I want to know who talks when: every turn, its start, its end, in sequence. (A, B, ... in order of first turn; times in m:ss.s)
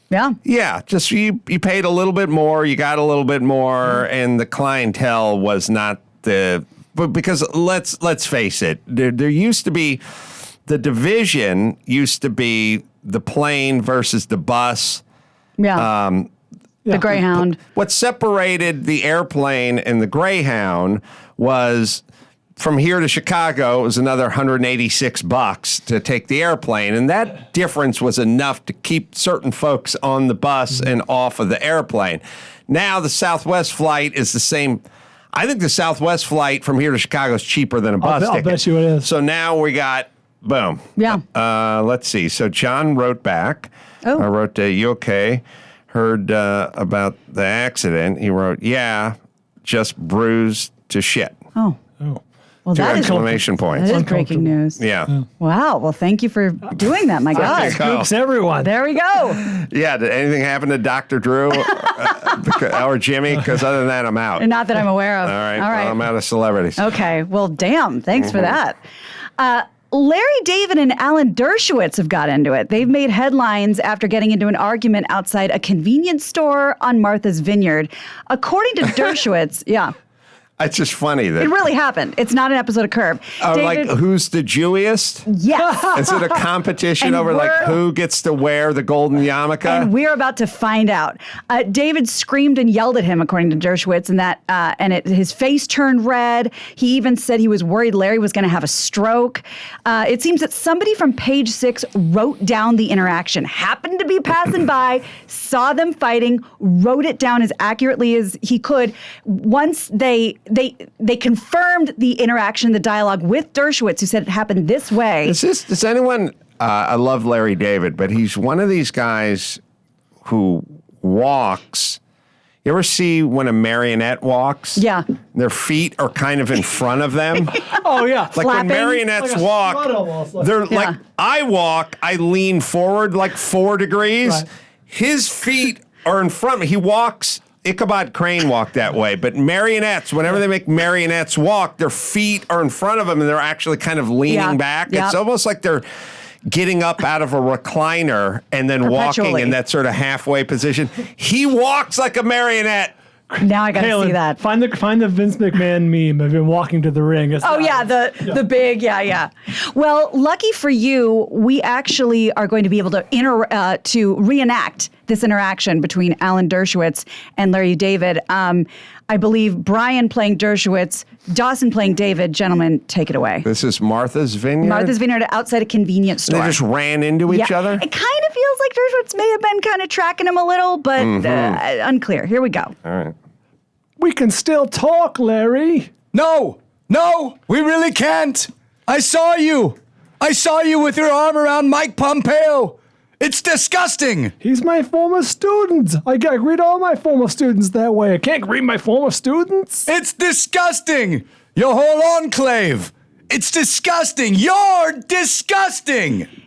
0:00.1-0:00.4 A
0:00.4-0:10.0 B
0:10.6-0:15.0 B
0:15.6-0:15.9 A
0:15.8-0:16.3 B
0:16.8-0:17.2 C
0:16.9-0:17.6 A
0:17.6-0:22.0 B
0:22.6-0:51.4 B
0:38.0-0:39.1 C
0:41.0-0:41.2 A
0:52.6-0:54.8 A
0:52.7-0:54.0 B
0:52.7-0:55.2 C
0:54.8-0:55.1 B
0:55.4-0:57.8 A
0:57.3-0:58.7 C
0:57.4-0:58.1 B
0:58.6-0:59.4 A
0:59.4-1:04.5 B
1:04.4-1:06.0 A
1:05.2-1:06.8 B
1:06.8-1:08.8 A
1:09.4-1:19.9 A
1:20.6-1:21.5 B
1:21.4-1:23.9 A
1:23.4-1:25.3 B
1:25.3-1:26.1 A
1:25.9-1:29.9 B
1:27.0-1:27.8 A
1:29.6-1:55.4 A
1:55.2-1:59.6 B
2:00.2-2:02.0 B
2:02.6-2:07.6 B
2:04.8-2:05.0 A
2:07.6-2:10.6 C
2:08.3-2:09.0 A
2:08.3-2:25.8 B
2:10.7-2:11.0 A
2:24.2-2:25.2 A
2:26.5-2:32.9 B
2:28.8-2:29.6 A
2:33.3-2:38.4 C
2:33.4-2:34.4 A
2:37.4-2:53.5 A
2:53.4-2:54.9 B
2:54.6-2:56.6 A
2:56.3-2:57.8 B
2:57.3-3:02.7 A
3:01.0-3:01.6 B
3:02.8-3:03.1 B
3:04.0-3:06.0 C
3:06.1-3:14.3 D
3:14.4-3:19.9 C
3:19.8-3:26.3 D